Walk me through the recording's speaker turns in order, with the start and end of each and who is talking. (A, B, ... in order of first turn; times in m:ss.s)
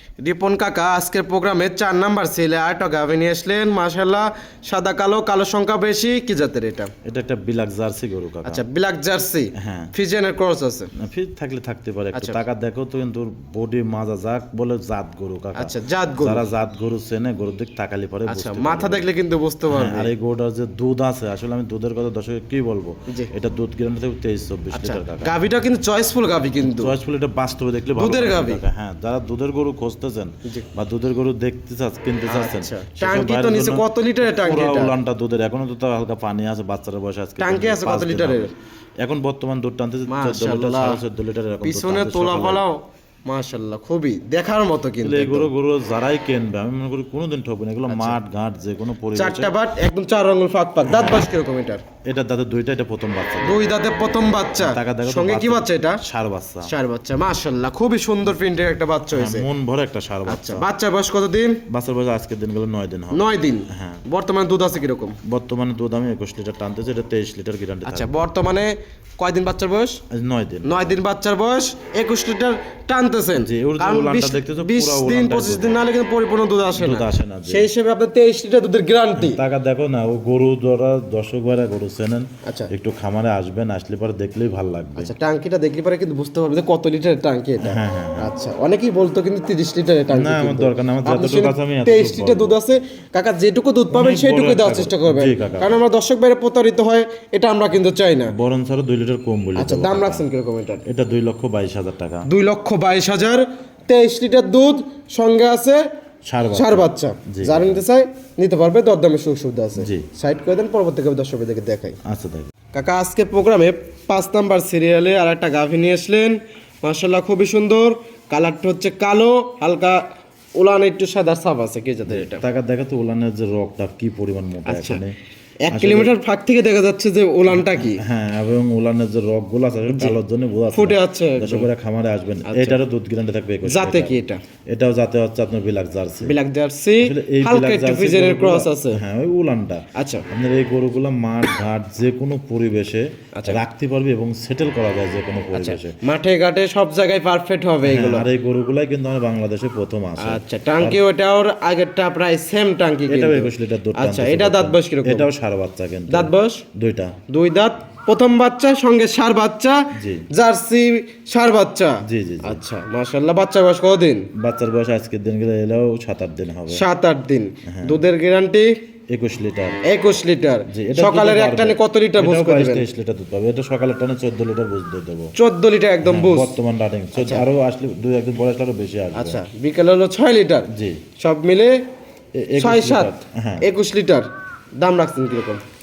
0:00.2-0:06.9 A
0:07.0-0:08.6 B
0:08.4-0:10.9 A
0:09.6-0:09.9 B
0:10.9-0:19.1 B
0:15.6-0:16.4 A
0:18.3-0:20.1 A
0:19.7-0:25.3 B
0:24.7-0:26.9 A
0:26.6-0:42.6 B
0:28.0-0:28.6 A
0:32.3-0:34.9 A
0:37.4-0:38.5 A
0:40.1-0:41.0 A
0:41.6-0:45.5 A
0:45.0-0:49.5 B
0:47.9-0:48.2 A
0:49.1-0:51.8 A
0:50.8-0:51.2 B
0:52.0-0:53.7 B
0:53.4-0:56.0 A
0:54.6-0:56.7 B
0:56.6-0:59.5 A
0:59.1-1:00.6 B
1:00.2-1:01.6 A
1:01.7-1:04.0 B
1:03.1-1:05.2 A
1:05.2-1:08.2 B
1:07.8-1:10.0 A
1:10.1-1:11.0 B
1:10.6-1:19.4 A
1:13.4-1:15.8 B
1:16.7-1:17.7 B
1:19.2-1:25.1 B
1:22.4-1:22.7 A
1:25.0-1:38.3 A
1:27.6-1:28.3 B
1:30.1-1:32.6 B
1:33.9-1:35.8 B
1:38.3-1:40.2 B
1:39.6-1:40.8 A
1:40.8-1:42.2 B
1:42.2-1:45.9 A
1:46.2-1:47.8 B
1:46.5-1:52.0 A
1:49.8-1:50.1 B
1:52.0-1:52.5 B
1:52.7-2:00.0 A
2:00.5-2:02.4 A
2:02.0-2:05.2 B
2:04.6-2:05.0 A
2:05.6-2:08.0 A
2:05.7-2:06.1 B
2:07.5-2:14.2 B
2:09.9-2:10.2 A
2:10.7-2:11.7 A
2:12.4-2:12.8 A
2:13.6-2:14.4 A
2:14.7-2:16.3 B
2:16.2-2:19.0 A
2:17.0-2:26.0 B
2:19.9-2:20.3 A
2:23.3-2:23.6 A
2:25.5-2:28.3 A
2:27.8-2:31.0 B
2:30.2-2:35.3 A
2:33.1-2:37.2 B
2:36.1-2:36.6 A
2:37.3-2:44.3 A
2:39.9-2:40.2 B
2:42.0-2:42.6 B
2:44.3-2:46.8 B
2:46.7-2:48.7 A
2:47.7-2:48.0 B
2:49.1-2:49.8 B
2:49.8-2:52.8 A
2:50.7-2:55.3 B
2:55.4-2:56.6 A
2:56.0-2:59.4 B
2:57.2-2:57.4 A
2:59.1-3:01.9 A
3:00.7-3:01.0 B
3:02.4-3:03.7 B
3:02.6-3:05.6 A